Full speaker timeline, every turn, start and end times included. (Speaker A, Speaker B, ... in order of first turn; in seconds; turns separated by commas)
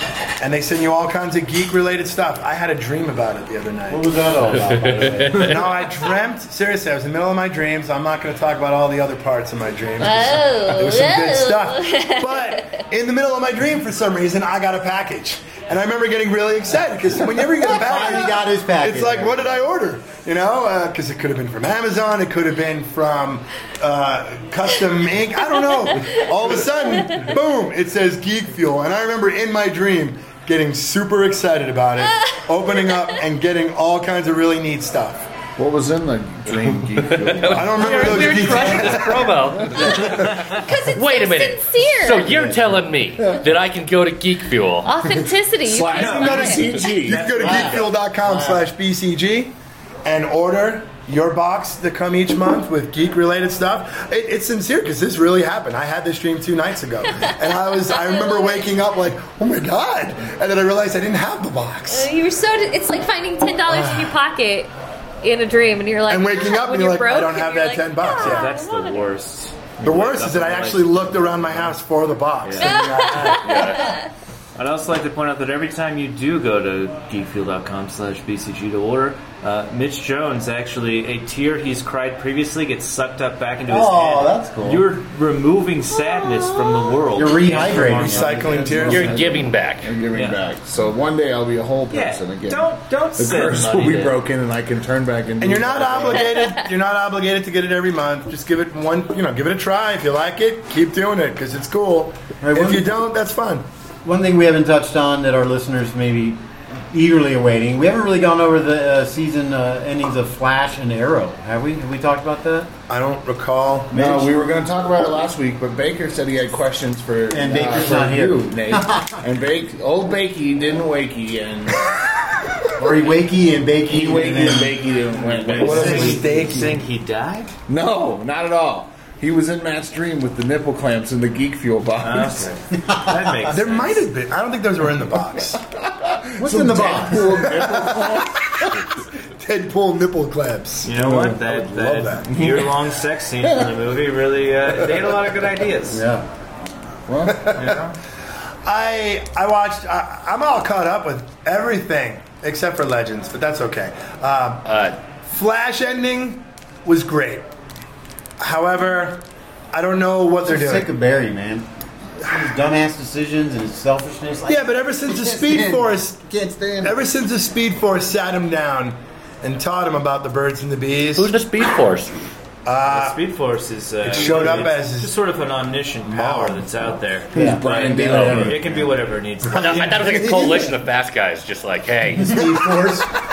Speaker A: 0.4-4.1, Speaker B: 3.9-5.6, Speaker C: 4.5-5.5, Speaker A: 5.3-35.3, Speaker D: 10.0-12.8, Speaker B: 17.6-19.7, Speaker E: 35.6-38.6, Speaker C: 37.0-44.9, Speaker A: 37.5-39.3, Speaker B: 37.8-39.1, Speaker E: 39.5-39.9, Speaker D: 40.5-42.3, Speaker B: 42.2-42.8, Speaker D: 44.8-46.6, Speaker E: 45.6-47.6, Speaker F: 45.9-47.9, Speaker A: 47.0-62.1, Speaker B: 47.4-48.6, Speaker D: 57.9-58.7, Speaker D: 61.9-64.7, Speaker A: 63.7-64.1, Speaker D: 65.2-69.1, Speaker A: 66.1-68.5, Speaker F: 68.2-71.8, Speaker A: 69.8-73.8, Speaker F: 72.4-73.5, Speaker D: 72.6-74.1, Speaker C: 73.4-74.0, Speaker F: 74.6-88.9, Speaker B: 83.7-84.9, Speaker D: 86.0-86.9, Speaker B: 87.1-89.2, Speaker A: 87.6-89.1, Speaker E: 88.5-96.4, Speaker C: 88.9-89.9, Speaker F: 90.1-90.4, Speaker F: 91.9-94.2, Speaker A: 95.4-103.6, Speaker B: 102.4-102.9, Speaker B: 104.0-112.7, Speaker A: 112.9-114.1, Speaker E: 113.9-121.9, Speaker B: 113.9-114.3, Speaker B: 117.3-119.2, Speaker B: 122.8-124.9, Speaker E: 123.9-126.5, Speaker F: 125.2-127.5, Speaker A: 125.6-126.8, Speaker B: 125.6-126.2, Speaker E: 127.7-132.5, Speaker F: 132.0-134.1, Speaker B: 132.8-133.5, Speaker A: 133.5-135.6, Speaker E: 135.8-138.7, Speaker B: 136.4-137.6, Speaker A: 136.8-140.9, Speaker F: 140.8-146.0, Speaker E: 140.9-142.8, Speaker A: 141.5-142.2, Speaker B: 145.9-146.3, Speaker E: 147.1-147.6, Speaker A: 147.2-147.8, Speaker F: 147.6-148.0, Speaker A: 148.6-157.5, Speaker C: 154.6-155.0, Speaker A: 158.4-160.9, Speaker B: 160.4-161.7, Speaker B: 162.2-164.7, Speaker A: 164.5-171.3, Speaker B: 165.2-165.7, Speaker E: 165.5-165.8, Speaker E: 166.4-166.9, Speaker C: 171.1-172.3, Speaker A: 172.6-173.2, Speaker F: 172.9-180.3, Speaker A: 174.0-175.1, Speaker A: 176.1-176.7, Speaker E: 177.3-178.9, Speaker B: 177.3-178.9, Speaker C: 178.1-178.5, Speaker C: 179.5-182.4, Speaker A: 179.6-180.7, Speaker B: 182.1-183.1, Speaker A: 182.3-183.0